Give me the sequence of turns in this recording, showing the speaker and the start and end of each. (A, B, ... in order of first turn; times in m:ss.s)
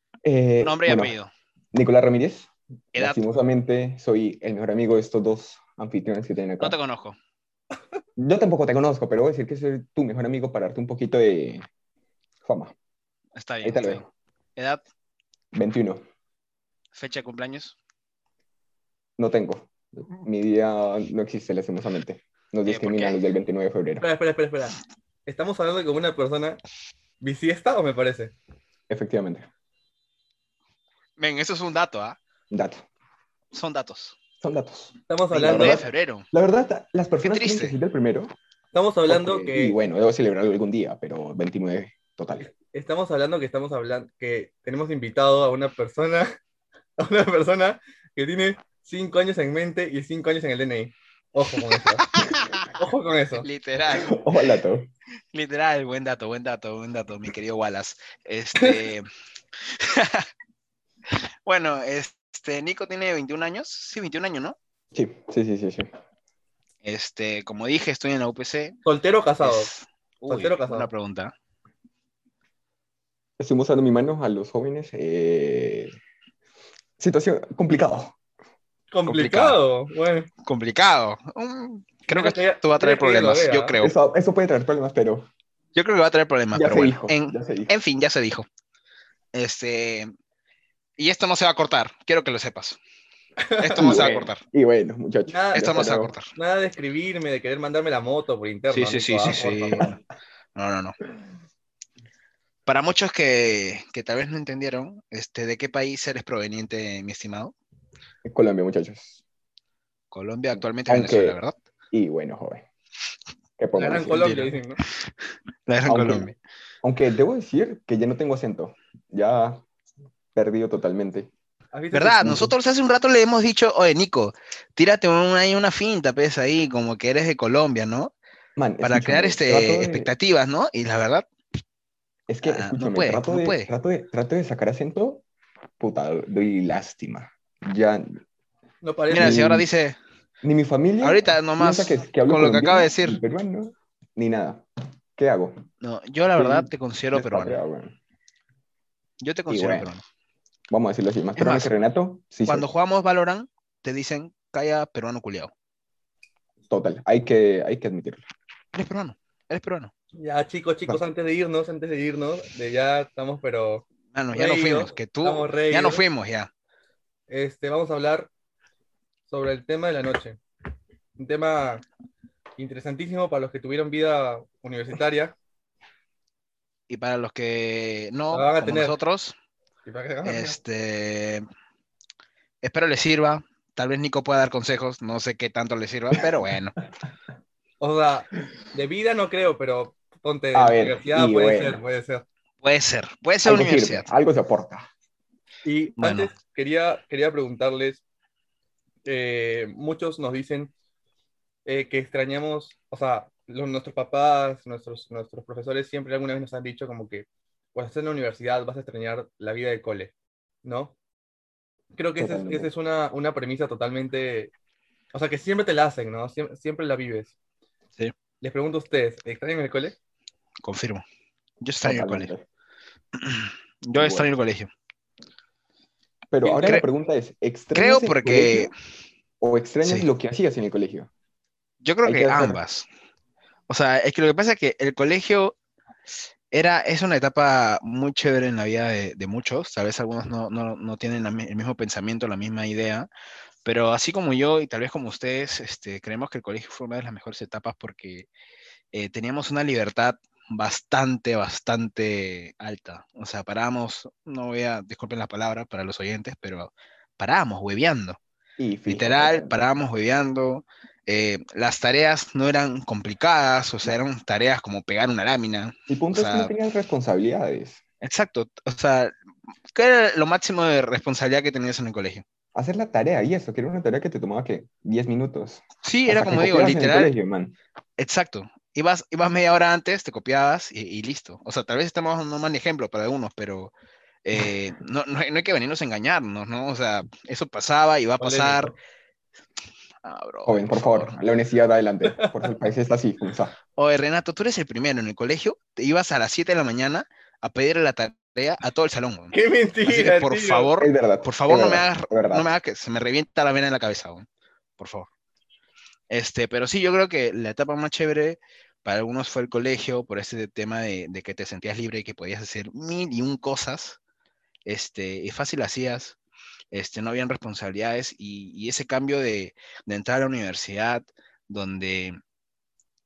0:00.2-0:01.1 A
0:00.6-0:01.3 B
0:01.7-0:06.8 A
0:02.9-0:03.4 B
0:06.6-0:07.2 B
0:08.2-0:11.6 A
0:12.4-0:12.7 A
0:13.4-0:14.8 B
0:13.6-0:14.0 A
0:15.5-0:16.0 A
0:16.9-0:17.7 B
0:19.2-0:24.0 A
0:22.6-0:23.2 B
0:24.0-0:26.6 C
0:27.2-0:28.3 C
0:28.9-0:29.5 A
0:31.2-0:32.2 B
0:32.5-0:32.8 A
0:33.5-0:34.2 B
0:34.4-0:38.3 A
0:35.1-0:35.8 C
0:35.4-0:36.2 B
0:37.2-0:37.7 B
0:38.7-0:39.8 C
0:39.1-0:42.5 A
0:42.5-0:46.3 C
0:47.0-0:52.0 C
0:52.0-0:52.7 B
0:52.7-0:53.4 C
0:53.3-0:54.2 B
0:53.9-0:54.9 A
0:55.3-0:59.0 B
0:59.7-1:00.3 B
1:01.4-1:04.6 B
1:04.9-1:05.9 A
1:06.8-1:08.8 B
1:08.8-1:09.7 C
1:09.4-1:11.3 B
1:10.3-1:10.9 C
1:13.4-1:15.9 A
1:17.0-1:18.1 A
1:18.9-1:20.3 C
1:19.0-1:19.6 B
1:20.4-1:23.9 B
1:22.1-1:23.7 C
1:23.8-1:25.3 A
1:25.7-1:28.5 B
1:26.5-1:27.7 A
1:29.3-1:30.1 B
1:31.0-1:32.8 B
1:33.4-1:34.0 C
1:33.6-1:34.4 B
1:33.8-1:36.1 A
1:35.3-1:39.8 C
1:35.5-1:36.3 B
1:38.7-1:40.0 B
1:40.6-1:41.0 B
1:42.6-1:47.5 B
1:48.2-1:49.2 A
1:50.1-1:51.5 B
1:50.6-1:51.4 A
1:51.9-1:52.6 A
1:53.6-1:54.3 A
1:53.7-1:54.8 C
1:54.2-1:54.5 B
1:55.7-1:56.4 B
1:55.8-1:56.3 A
1:56.8-1:59.6 A
2:00.3-2:01.3 A
2:01.7-2:02.4 C
2:01.9-2:08.1 B
2:02.2-2:02.5 A
2:08.6-2:10.1 A
2:08.8-2:11.2 B
2:12.3-2:15.2 A
2:12.4-2:13.7 B
2:15.8-2:18.2 A
2:18.8-2:19.4 C
2:19.1-2:20.0 B
2:19.1-2:19.7 A
2:20.4-2:24.6 A
2:21.0-2:23.2 B
2:25.2-2:25.6 A
2:25.8-2:27.6 B
2:26.4-2:28.0 A
2:29.2-2:30.0 B
2:29.5-2:29.9 A
2:30.7-2:32.7 A
2:31.4-2:31.7 B
2:32.4-2:35.5 B
2:36.7-2:38.2 A
2:38.7-2:39.9 B
2:40.2-2:46.0 C
2:44.1-2:46.5 B
2:47.3-2:48.3 C
2:49.3-2:50.4 C
2:51.2-2:51.8 C
2:52.6-2:55.3 C
2:56.9-2:59.3 B
2:58.3-2:58.9 C
2:59.8-3:00.6 C
3:00.2-3:01.4 B
3:02.6-3:06.8 B
3:07.8-3:12.2 C
3:10.5-3:11.8 A
3:12.6-3:14.0 B
3:13.4-3:14.9 A
3:15.6-3:18.0 C
3:16.0-3:16.3 B
3:19.0-3:20.7 C
3:21.6-3:30.1 C
3:30.6-3:30.9 C
3:32.0-3:34.5 C
3:32.2-3:32.7 A
3:35.1-3:37.3 C
3:38.4-3:40.0 C
3:40.6-3:41.0 B
3:41.6-3:42.3 B
3:41.8-3:42.4 A
3:43.2-3:44.7 B
3:43.9-3:44.3 A
3:46.3-3:48.7 A
3:47.7-3:48.7 B
3:49.4-3:51.1 A
3:49.8-3:50.1 B
3:51.8-3:52.9 B
3:52.0-3:52.6 A
3:53.7-3:55.5 B
3:56.5-4:03.1 B
4:03.6-4:08.3 B
4:08.9-4:18.2 B
4:18.6-4:19.6 A
4:18.9-4:26.5 B
4:25.9-4:27.8 A
4:28.0-4:29.1 B
4:29.7-4:32.2 B
4:32.5-4:37.5 A
4:35.8-4:37.1 B
4:38.0-4:43.7 B
4:44.2-4:48.7 B
4:48.2-4:48.7 C
4:50.0-4:51.1 B
4:50.4-4:53.6 A
4:52.1-4:52.4 C
4:53.8-5:04.3 B
4:59.3-5:00.7 C
5:00.8-5:02.5 A
5:04.8-5:05.1 B
5:06.1-5:14.0 B
5:14.6-5:16.2 B
5:16.7-5:22.2 B